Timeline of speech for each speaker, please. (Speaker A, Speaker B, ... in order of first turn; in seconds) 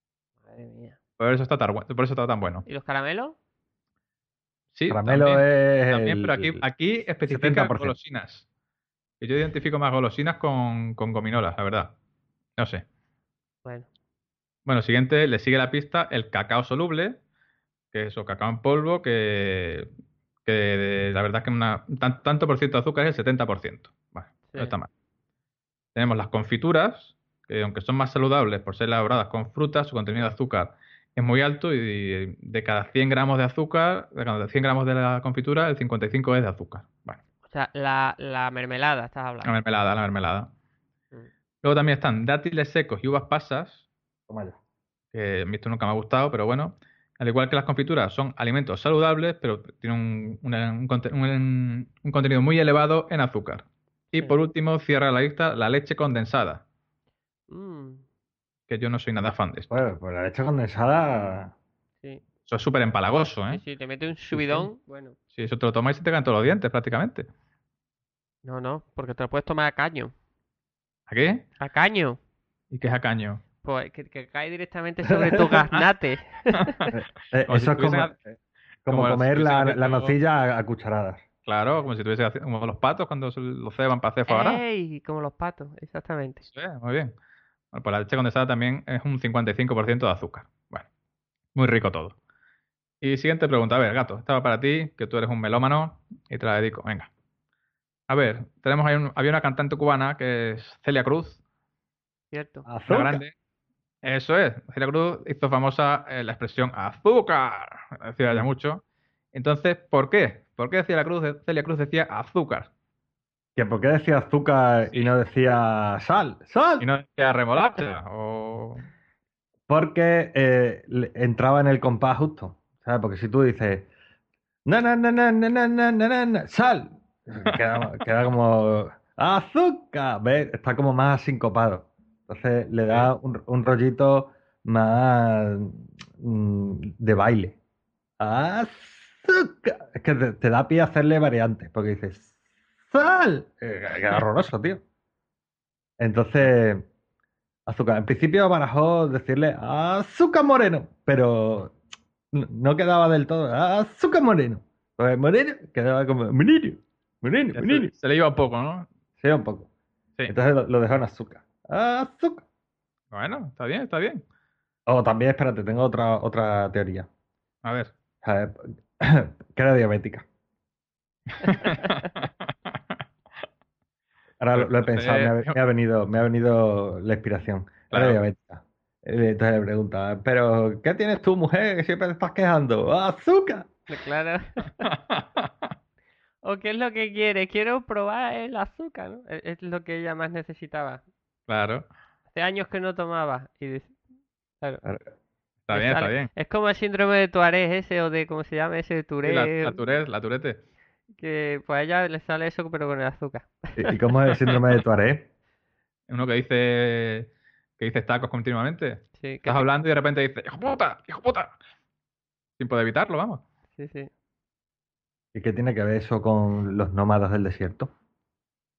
Speaker A: 0.5-1.0, 2.7-3.4, 24.5-24.8, 37.5-39.6, 57.5-58.0, 63.5-65.2, 68.4-70.1, 71.6-72.2, 73.6-76.9, 84.3-86.4, 102.3-102.7, 171.7-172.1, 183.9-184.9, 186.4-191.0, 192.3-194.0, 195.7-199.8, 201.2-204.0, 209.2-209.7, 213.8-214.1
Speaker B: 1.2-2.7, 4.7-8.4, 9.2-11.9, 12.6-12.8, 14.7-17.2, 17.9-19.9, 20.5-24.9, 25.9-37.2, 39.4-40.5, 41.6-43.8, 45.1-56.6, 58.7-59.7, 62.5-63.6, 65.3-67.3, 71.1-71.5, 72.7-73.4, 76.6-76.8, 77.5-78.2, 78.9-80.2, 81.5-84.6, 86.4-87.1, 87.7-90.9, 91.5-92.2, 93.0-97.1, 98.1-101.4, 102.9-103.3, 104.0-108.8, 109.3-112.7, 116.8-118.9, 127.5-127.8, 157.6-158.9, 163.1-164.2, 167.6-167.9, 171.4-172.8, 174.6-175.6, 177.9-178.2, 184.8-185.5, 191.5-191.9, 195.7-196.3, 199.2-200.6, 206.1-211.6, 212.6-213.4
Speaker C: 4.9-6.6, 7.3-8.0, 44.3-44.6, 59.7-61.5, 64.3-64.7, 76.9-81.2, 102.7-103.2, 113.6-116.9, 119.7-123.9, 124.7-137.6, 138.2-142.4, 142.9-144.8, 146.0-146.9, 147.7-151.8, 152.3-157.9, 159.2-159.7, 160.3-162.4, 164.9-167.1, 168.2-170.2, 174.4-183.8, 203.8-205.3, 215.3-217.9